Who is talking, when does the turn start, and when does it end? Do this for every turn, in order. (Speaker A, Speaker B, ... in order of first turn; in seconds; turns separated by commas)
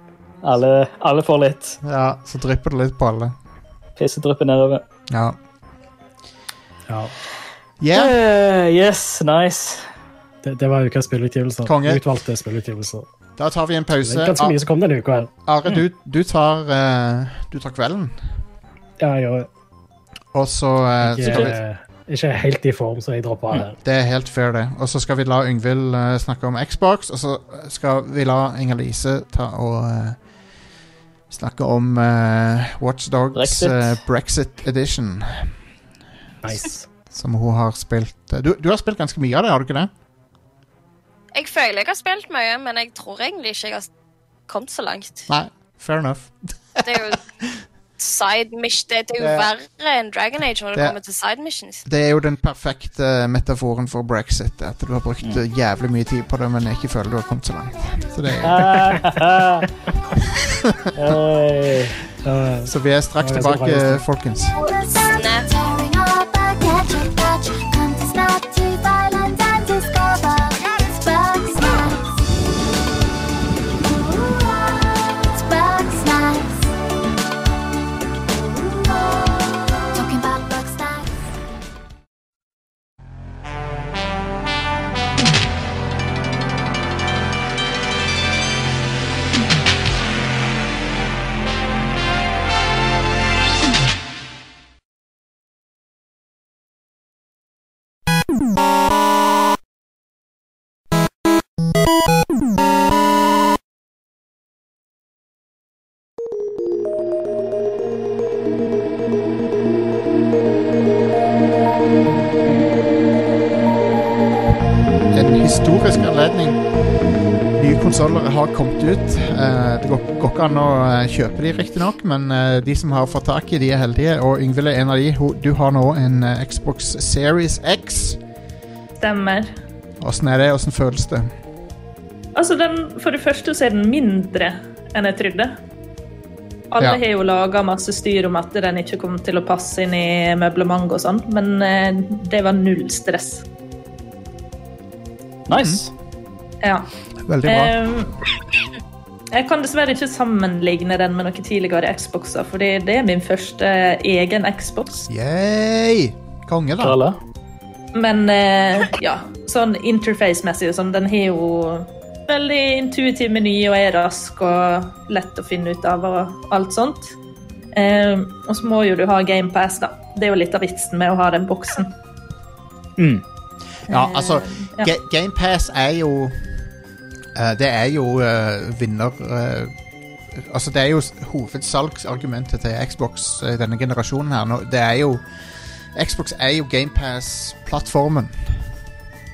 Speaker A: 0.4-1.8, Speaker B: 1.8-3.3, Speaker A: 4.0-4.8, Speaker B: 5.1-5.4, Speaker C: 6.9-7.1, Speaker B: 7.8-8.2, Speaker A: 7.9-9.9, Speaker C: 10.4-13.1, Speaker B: 11.6-12.0, Speaker B: 13.4-14.5, Speaker C: 14.0-15.3, Speaker B: 15.4-18.2, Speaker C: 19.0-19.5, Speaker B: 20.3-21.6, Speaker C: 21.0-23.8, Speaker B: 23.8-30.2, Speaker B: 31.3-35.5, Speaker A: 33.3-33.9, Speaker C: 36.4-36.9, Speaker B: 37.1-39.9, Speaker D: 41.3-43.9, Speaker D: 44.5-45.3, Speaker B: 45.3-47.1, Speaker D: 46.8-47.2, Speaker D: 48.0-51.8, Speaker B: 49.2-49.5, Speaker B: 51.9-58.7, Speaker A: 58.4-59.7, Speaker B: 60.3-60.9, Speaker A: 60.9-62.0, Speaker C: 62.2-64.0, Speaker B: 62.7-64.5, Speaker D: 64.5-65.5, Speaker E: 64.6-72.3, Speaker E: 73.7-76.7, Speaker E: 78.2-81.1, Speaker B: 115.1-116.6, Speaker B: 117.6-128.2, Speaker F: 129.0-129.5, Speaker B: 130.0-131.3, Speaker F: 132.3-135.6, Speaker F: 136.7-143.4, Speaker A: 145.5-145.9, Speaker B: 145.5-145.8, Speaker F: 146.6-146.9, Speaker B: 147.2-147.7, Speaker F: 147.4-148.1, Speaker F: 149.3-155.1, Speaker B: 155.1-157.0, Speaker A: 156.8-157.2, Speaker F: 157.9-167.1, Speaker F: 167.7-171.9, Speaker A: 173.0-173.2, Speaker B: 173.9-176.4, Speaker F: 173.9-174.9, Speaker B: 177.3-179.7, Speaker B: 180.3-185.2, Speaker B: 185.9-188.6